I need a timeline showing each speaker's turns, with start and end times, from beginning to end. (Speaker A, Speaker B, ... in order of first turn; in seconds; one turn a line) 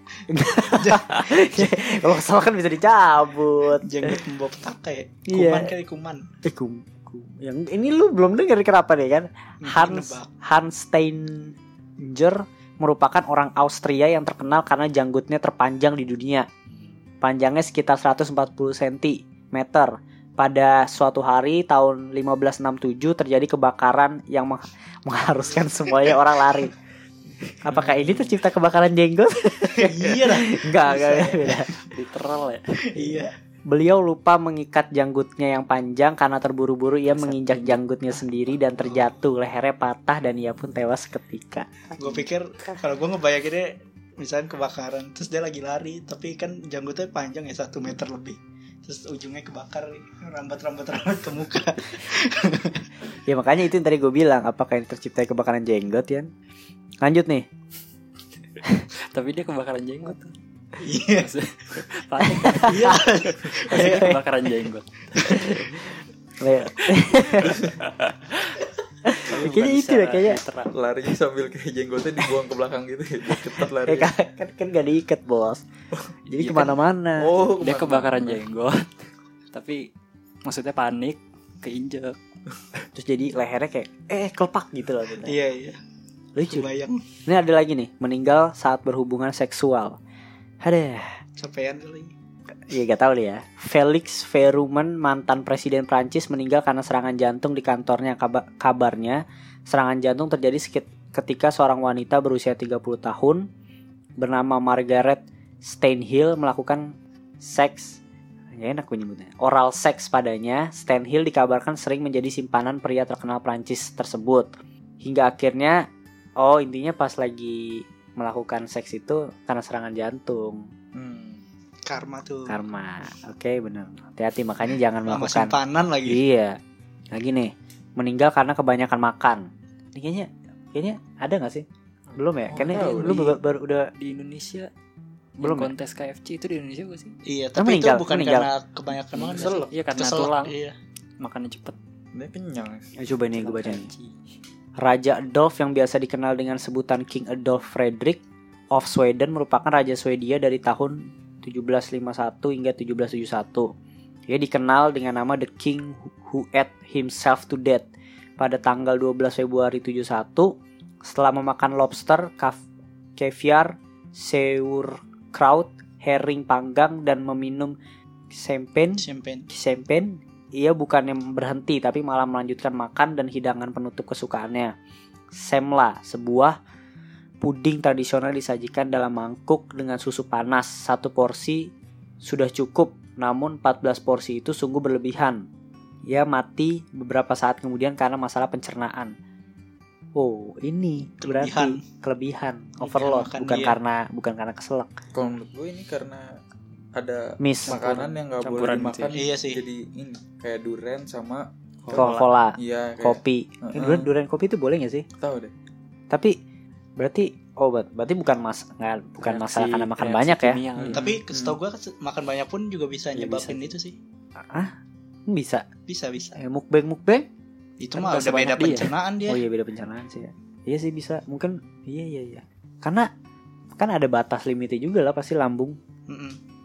Speaker A: 0.3-4.2
Speaker B: 0.7-1.0
Speaker B: 3.8-6.3
Speaker A: 5.3-5.7
Speaker A: 6.4-16.5
Speaker B: 9.6-10.3
Speaker C: 16.7-17.0
Speaker A: 17.2-26.7
Speaker A: 27.6-31.7
Speaker C: 27.7-28.2
Speaker B: 29.8-31.9
Speaker C: 31.9-33.2
Speaker B: 32.9-33.3
Speaker A: 33.7-41.7
Speaker C: 37.1-37.8
Speaker B: 42.0-52.8
Speaker A: 53.3-56.3
Speaker A: 57.0-57.5
Speaker C: 59.1-65.8
Speaker B: 60.8-61.3
Speaker A: 62.2-62.9
Speaker B: 62.6-64.2
Speaker A: 63.7-64.2
Speaker A: 65.2-65.8
Speaker A: 66.4-67.5
Speaker D: 67.4-67.8
Speaker C: 67.8-68.6
Speaker A: 69.0-70.4
Speaker C: 69.2-70.7
Speaker D: 70.7-74.1
Speaker A: 73.8-75.6
Speaker A: 76.3-77.3
Speaker C: 76.3-76.8
Speaker D: 77.2-78.4
Speaker C: 77.6-79.9
Speaker C: 80.4-82.2
Speaker A: 82.9-85.3
Speaker B: 85.2-85.8
Speaker A: 86.3-86.7
Speaker B: 86.4-87.0
Speaker A: 87.2-90.0
Speaker A: 90.6-91.2
Speaker B: 91.4-92.1
Speaker A: 92.7-103.4
Speaker A: 104.2-108.0
Speaker A: 108.5-115.8
Speaker A: 116.4-120.7
Speaker D: 120.9-121.4
Speaker B: 121.9-122.5
Speaker A: 122.5-125.5
Speaker B: 125.1-126.2
Speaker A: 126.1-126.6
Speaker A: 127.1-133.9
Speaker D: 132.5-133.4
Speaker C: 132.5-133.3
Speaker C: 134.0-134.7
Speaker C: 135.4-137.2
Speaker A: 135.4-135.7
Speaker B: 137.2-140.8
Speaker A: 137.6-138.5
Speaker C: 139.1-140.6
Speaker D: 139.2-139.8
Speaker C: 141.2-141.8
Speaker D: 142.1-142.9
Speaker A: 143.0-143.9
Speaker C: 143.3-144.2
Speaker A: 144.8-148.2
Speaker A: 148.7-153.7
Speaker A: 154.3-162.6
Speaker A: 163.2-167.8
Speaker A: 168.3-174.7
Speaker B: 169.0-169.5
Speaker A: 175.3-176.6
Speaker A: 177.4-181.7
Speaker A: 182.2-185.5
Speaker A: 186.1-189.1
Speaker A: 190.1-194.9
Speaker B: 191.2-191.8
Speaker B: 192.8-193.8
Speaker D: 195.1-196.3
Speaker D: 196.9-204.1
Speaker A: 197.4-198.1
Speaker C: 197.7-199.2
Speaker B: 199.1-199.6
Speaker C: 201.8-202.3
Speaker A: 201.9-205.1
Speaker D: 205.2-205.5
Speaker A: 206.1-206.3
Speaker A: 207.0-210.6
Speaker C: 209.2-211.2
Speaker D: 210.8-211.5
Speaker B: 210.9-213.9
Speaker C: 213.1-213.7
Speaker A: 215.3-215.7
Speaker B: 215.9-216.4
Speaker A: 216.4-217.2
Speaker B: 217.8-219.4
Speaker C: 217.9-218.9
Speaker A: 219.3-223.1
Speaker A: 223.8-225.8
Speaker B: 226.1-226.4